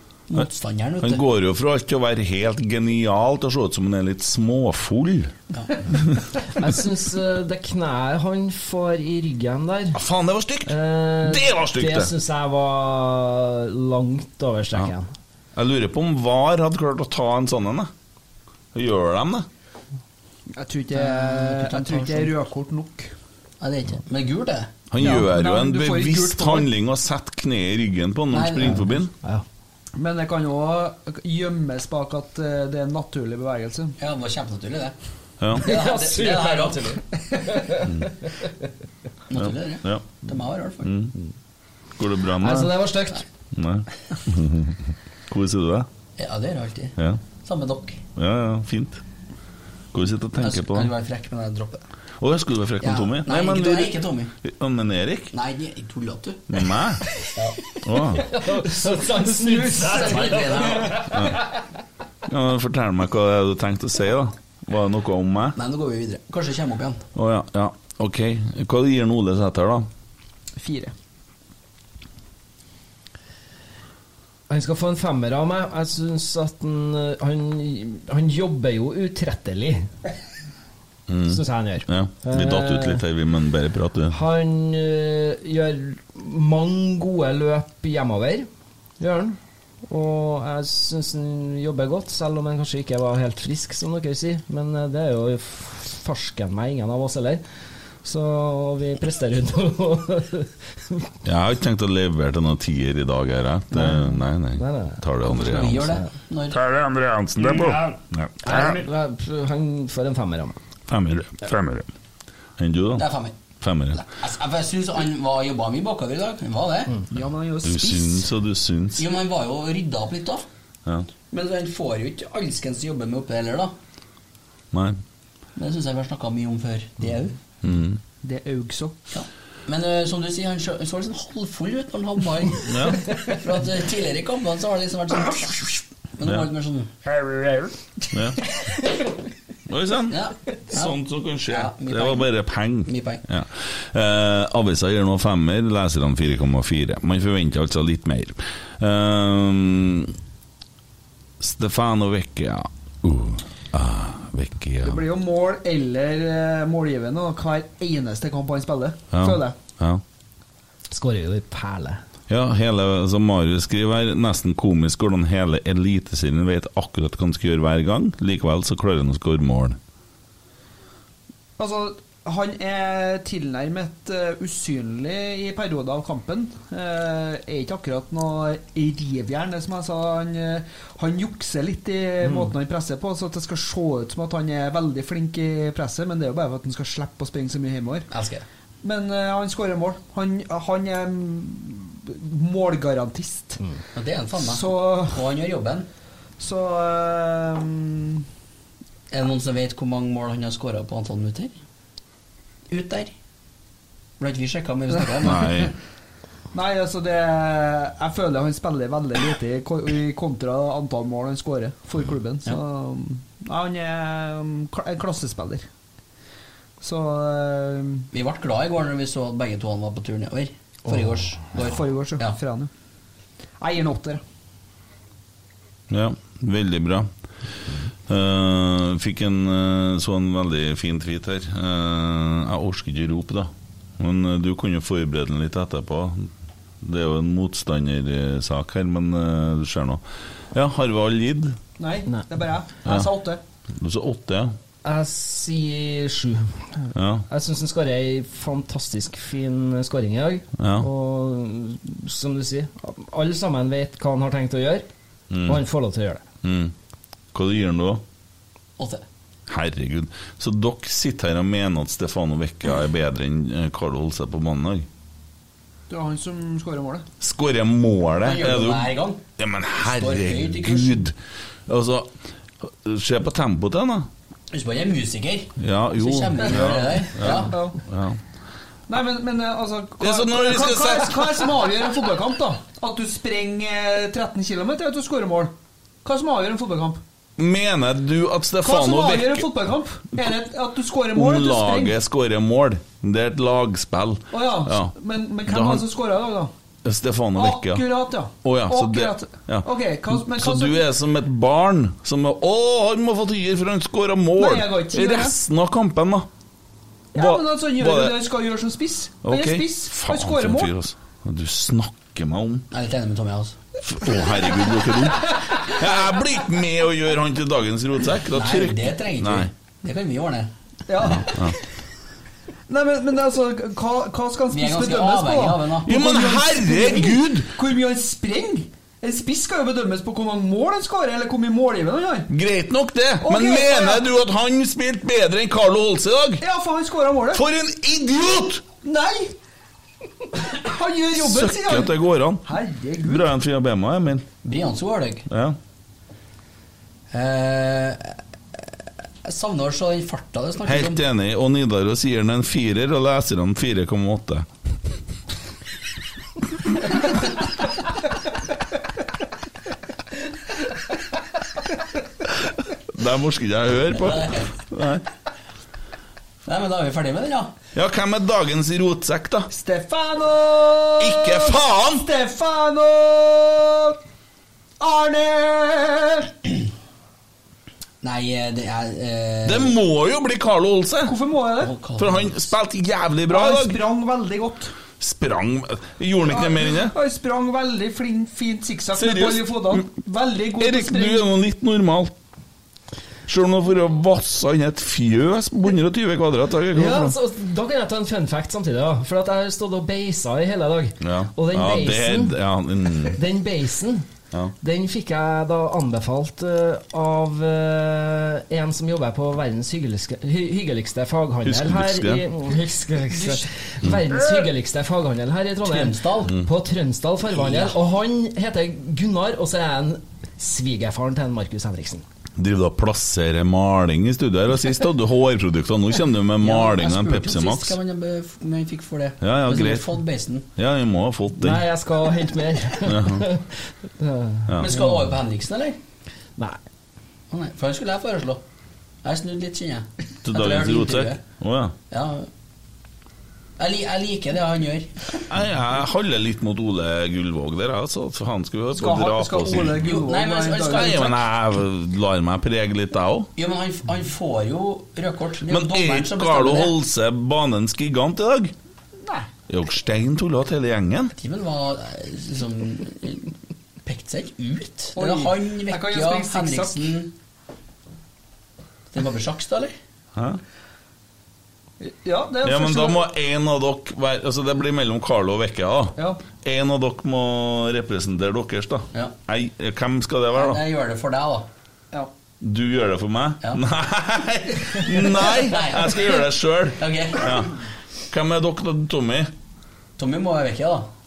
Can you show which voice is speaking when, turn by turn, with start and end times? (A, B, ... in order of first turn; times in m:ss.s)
0:00.3-0:01.3 A
0:01.0-0:05.3 B
0:05.5-0:05.8 A
0:06.6-0:10.0 C
0:09.9-0:12.1 B
0:10.7-0:15.1 C
0:15.6-0:17.9 B
0:18.7-0:19.5 B
0:20.6-0:23.1 D
0:20.9-0:22.4 A
0:23.6-0:24.8 A
0:24.9-0:29.1 B
0:25.0-0:26.7 D
0:28.3-0:29.0 A
0:30.0-0:34.0 D
0:34.0-0:35.0 A
0:35.4-0:35.7 B
0:35.5-0:37.0 A
0:35.6-0:37.9 C
0:39.3-0:41.1 A
0:39.3-0:40.2 B
0:40.8-0:41.1 B
0:42.0-0:42.8 B
0:42.4-0:43.2 C
0:43.5-0:44.8 B
0:45.3-0:45.9 B
0:46.2-0:48.0 A
0:48.2-0:49.0 B
0:49.9-0:50.9 B
0:50.4-0:51.8 A
0:52.2-0:55.3 B
0:52.8-0:54.3 A
0:55.3-0:56.7 A
0:56.5-0:57.0 B
0:57.8-0:58.3 B
0:58.2-1:01.1 C
0:58.7-1:01.1 D
0:59.9-1:01.3 A
1:02.3-1:05.6 B
1:05.6-1:07.0 A
1:07.2-1:09.9 B
1:10.6-1:10.9 D
1:14.5-1:19.9 C
1:21.1-1:24.2 B
1:21.3-1:23.0 C
1:24.1-1:28.5 C
1:29.0-1:37.4 C
1:38.0-1:41.1 C
1:41.2-1:45.9 B
1:43.7-1:45.0 C
1:45.2-1:46.6 A
1:45.8-1:46.1 C
1:46.5-1:48.8 E
1:47.5-1:47.8 C
1:48.1-1:48.7 B
1:48.4-1:50.6 C
1:50.9-1:51.5 B
1:51.4-1:51.9 E
1:52.6-1:53.0 B
1:53.0-1:53.4 A
1:53.6-1:54.0 B
1:53.9-1:57.0 A
1:57.1-1:58.3 D
1:57.6-1:59.0 B
1:59.0-2:00.4 A
2:01.3-2:03.8 A
2:04.7-2:05.0 B
2:05.6-2:07.4 A
2:07.6-2:08.0 B
2:08.2-2:09.0 D
2:09.1-2:16.9 A
2:12.7-2:13.0 B
2:17.1-2:17.7 E
2:18.1-2:18.4 B
2:19.7-2:30.1 B
2:20.1-2:22.3 A
2:22.8-2:23.2 A
2:31.4-2:35.0 B
2:34.8-2:39.6 D
2:39.1-2:40.0 B
2:40.9-2:42.0 C
2:42.3-2:49.8 B
2:51.6-3:08.1 D
3:08.1-3:08.5 A
3:08.8-3:13.6 D
3:13.9-3:15.9 A
3:14.4-3:15.2 D
3:16.4-3:18.2 D
3:19.1-3:21.5 A
3:22.7-3:23.1 A
3:24.2-3:25.7 A
3:25.2-3:25.7 B
3:25.4-3:25.7 D
3:26.5-3:35.7 D
3:36.8-3:38.1 D
3:38.1-3:42.4 A
3:41.6-3:42.7 D
3:43.6-3:44.2 D
3:45.9-3:47.1 B
3:48.1-3:56.3 B
3:56.8-4:00.0 B
4:00.5-4:01.6 B
4:01.8-4:03.4 D
4:03.8-4:04.6 B
4:04.8-4:06.6 C
4:06.9-4:07.3 B
4:07.3-4:14.9 C
4:10.6-4:10.9 B
4:15.3-4:15.6 B
4:15.4-4:16.2 C
4:16.4-4:16.7 B
4:17.3-4:18.0 B
4:18.8-4:19.0 A
4:19.5-4:24.9 B
4:25.9-4:27.1 D
4:27.2-4:31.2 B
4:28.2-4:29.2 A
4:29.8-4:31.1 A
4:31.7-4:32.1 B
4:32.6-4:34.1 B
4:34.5-4:37.6 A
4:35.6-4:38.2 B
4:36.4-4:37.8 D
4:38.9-4:45.5 D
4:40.0-4:41.5 B
4:46.0-4:47.0 D
4:47.4-4:49.5 B
4:48.6-4:52.0 D
4:51.1-4:54.9 B
4:54.3-4:56.5 D
4:55.5-4:55.8 B
4:56.8-4:57.8 B
4:57.4-5:00.8 D
4:58.4-4:59.7 B
5:00.2-5:06.3 B
5:04.4-5:05.4 D
5:07.1-5:10.7 D
5:07.2-5:08.2 B
5:09.2-5:12.7 B
5:12.7-5:13.6 A
5:13.8-5:19.5 B
5:18.3-5:20.5 A
5:20.9-5:21.4 D
5:21.2-5:21.6 B
5:22.7-5:32.3 D
5:24.5-5:26.0 A
5:25.9-5:27.5 B
5:32.3-5:36.4 B
5:33.2-5:34.1 D
5:36.4-5:37.4 D
5:37.3-5:38.6 B
5:38.8-5:39.3 D
5:40.4-5:43.3 D
5:41.2-5:42.4 B
5:43.0-5:44.3 B
5:44.4-5:45.3 A
5:45.3-5:45.6 B
5:47.1-5:48.6 A
5:49.2-5:51.0 A
5:50.7-5:54.5 B
6:03.0-6:05.0 B
6:03.9-6:04.5 A
6:06.4-6:07.5 A
6:07.8-6:09.5 B
6:09.5-6:14.0 D
6:11.0-6:12.0 B
6:14.8-6:16.5 D
6:18.0-6:19.8 A
6:19.5-6:21.2 B
6:21.0-6:21.7 D
6:21.6-6:22.5 A
6:22.0-6:23.8 B
6:23.3-6:24.7 D
6:25.0-6:27.0 B
6:26.3-6:31.3 D
6:28.9-6:29.8 B
6:30.6-6:32.1 B
6:33.3-6:37.1 B
6:36.7-6:42.4 C
6:41.0-6:43.2 B
6:43.1-6:44.1 C
6:44.6-7:02.0 C
6:51.5-6:52.2 B
6:55.6-6:56.4 A
6:57.3-6:57.8 A
7:02.4-7:07.8 B
7:06.4-7:10.5 A
7:09.2-7:10.0 B
7:10.6-7:11.6 B
7:11.4-7:14.8 C
7:12.8-7:13.3 B
7:14.5-7:14.7 B
7:14.6-7:15.8 A
7:17.3-7:18.4 A
7:19.0-7:21.2 A
7:20.2-7:21.8 B
7:21.9-7:22.3 A
7:23.6-7:25.2 A
7:25.3-7:30.0 B
7:28.7-7:31.1 D
7:29.7-7:31.2 A
7:30.7-7:33.3 B
7:33.4-7:36.8 A
7:35.5-7:38.5 B
7:39.0-7:39.3 D
7:39.5-7:41.1 B
7:41.2-7:47.1 A
7:45.0-7:46.9 D
7:48.9-7:49.7 A
7:51.8-7:53.0 D
7:52.4-8:00.6 B
7:56.0-7:56.2 D
8:00.3-8:01.5 A
8:02.4-8:07.6 B
8:05.4-8:07.5 A
8:08.1-8:09.3 B
8:10.0-8:10.9 A